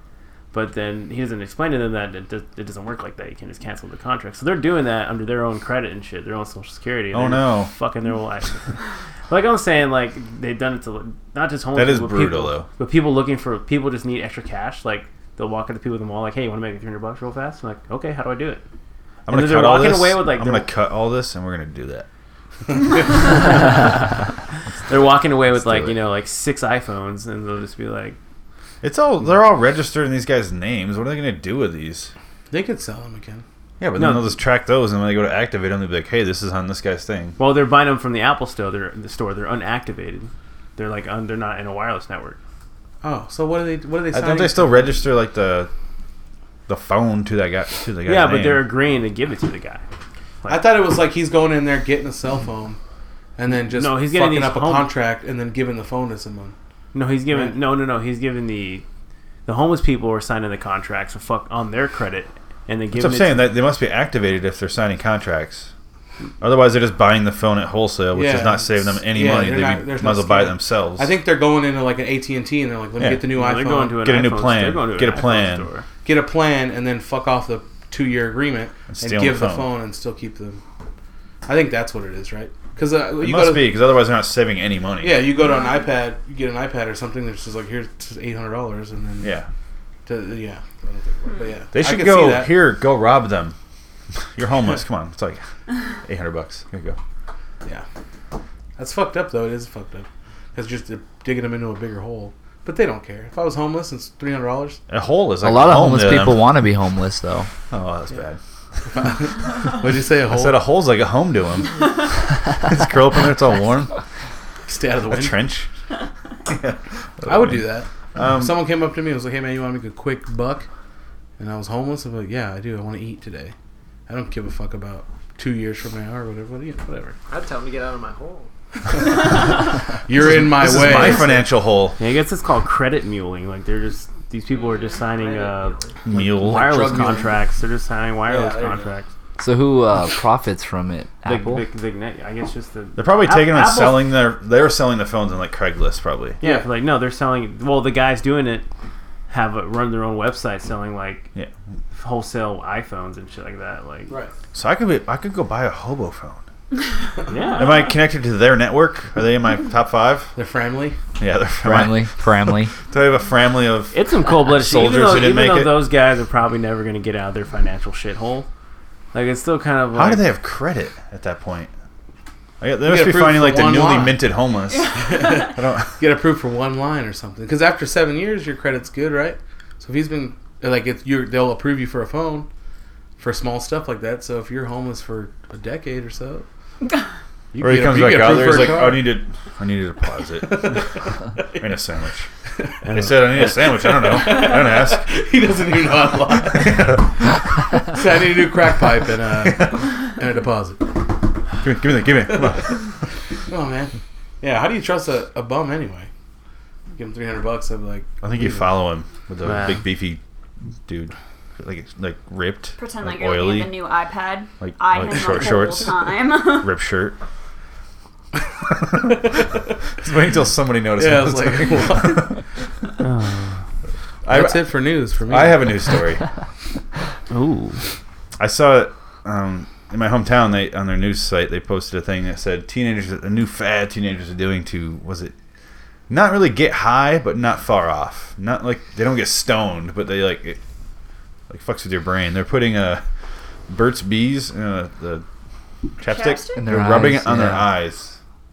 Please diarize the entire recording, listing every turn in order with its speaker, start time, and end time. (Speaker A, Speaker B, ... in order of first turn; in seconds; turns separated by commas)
Speaker A: 0.5-18.6, Speaker B: 7.1-7.7, Speaker B: 11.7-12.7, Speaker B: 19.2-22.1, Speaker A: 19.3-20.7, Speaker A: 23.1-24.3, Speaker A: 24.9-28.2, Speaker B: 25.6-25.9, Speaker B: 28.8-32.1, Speaker C: 32.5-33.4, Speaker B: 33.8-37.4, Speaker A: 34.0-34.4, Speaker A: 37.4-42.4, Speaker C: 43.0-44.9, Speaker B: 44.1-45.7, Speaker B: 46.7-48.7, Speaker A: 48.0-49.8, Speaker C: 50.5-52.8, Speaker C: 53.4-56.5, Speaker A: 53.7-54.9, Speaker A: 56.9-58.8, Speaker C: 57.3-57.6, Speaker A: 59.5-63.5, Speaker B: 62.9-65.7, Speaker B: 66.4-71.1, Speaker C: 68.1-74.0, Speaker B: 73.0-73.3, Speaker A: 73.3-75.8, Speaker B: 74.0-75.7, Speaker C: 76.0-80.6, Speaker B: 78.9-79.7, Speaker C: 81.5-83.8, Speaker B: 83.2-85.2, Speaker C: 85.0-89.4, Speaker D: 85.4-85.8, Speaker B: 89.2-89.5, Speaker C: 90.0-92.6, Speaker B: 91.7-93.5, Speaker B: 94.3-95.4, Speaker B: 96.0-97.0, Speaker C: 98.8-104.8, Speaker B: 104.9-106.5, Speaker E: 105.4-107.5, Speaker B: 107.7-108.4, Speaker C: 108.9-110.6, Speaker B: 110.3-113.9, Speaker C: 114.7-115.4, Speaker B: 115.1-115.7, Speaker B: 116.5-118.5, Speaker C: 117.2-120.7, Speaker C: 121.4-123.5, Speaker C: 124.1-127.2, Speaker F: 127.3-128.5, Speaker C: 130.1-131.4, Speaker B: 130.2-132.0, Speaker A: 132.0-139.1, Speaker F: 135.1-136.0, Speaker B: 136.1-137.0, Speaker C: 136.1-137.4, Speaker C: 138.3-138.9, Speaker E: 139.4-141.6, Speaker A: 141.2-144.1, Speaker B: 143.0-146.4, Speaker C: 146.4-146.7, Speaker A: 146.4-148.7, Speaker A: 149.3-151.3, Speaker A: 151.9-154.1, Speaker B: 154.5-156.4, Speaker A: 157.3-157.9, Speaker B: 157.6-160.3, Speaker C: 160.3-161.0, Speaker B: 161.2-165.8, Speaker E: 161.6-162.7, Speaker A: 163.9-168.5, Speaker A: 169.1-170.2, Speaker B: 169.9-171.7, Speaker B: 172.6-176.0, Speaker C: 172.8-174.2, Speaker D: 174.7-175.5, Speaker C: 175.0-182.5, Speaker C: 183.2-186.4, Speaker C: 187.5-189.2, Speaker B: 187.6-190.9, Speaker C: 190.4-191.6, Speaker B: 191.5-192.3, Speaker A: 192.8-193.5, Speaker B: 192.9-195.1, Speaker C: 193.4-197.0, Speaker B: 196.4-197.1, Speaker C: 197.9-200.9, Speaker B: 199.4-199.8, Speaker B: 201.6-202.9, Speaker C: 203.5-206.1, Speaker C: 206.9-208.7, Speaker B: 208.2-210.2, Speaker A: 209.4-209.8, Speaker B: 210.8-213.8, Speaker D: 212.8-216.7, Speaker B: 214.6-217.2, Speaker C: 219.2-219.5, Speaker B: 220.0-222.3, Speaker C: 221.0-222.4, Speaker A: 223.0-223.6, Speaker B: 224.2-226.2, Speaker C: 224.3-225.7, Speaker A: 227.3-227.8, Speaker B: 228.4-235.3, Speaker B: 236.1-240.6, Speaker B: 241.5-243.0, Speaker B: 243.7-245.2, Speaker B: 246.0-248.2, Speaker D: 246.0-246.7, Speaker E: 246.6-247.7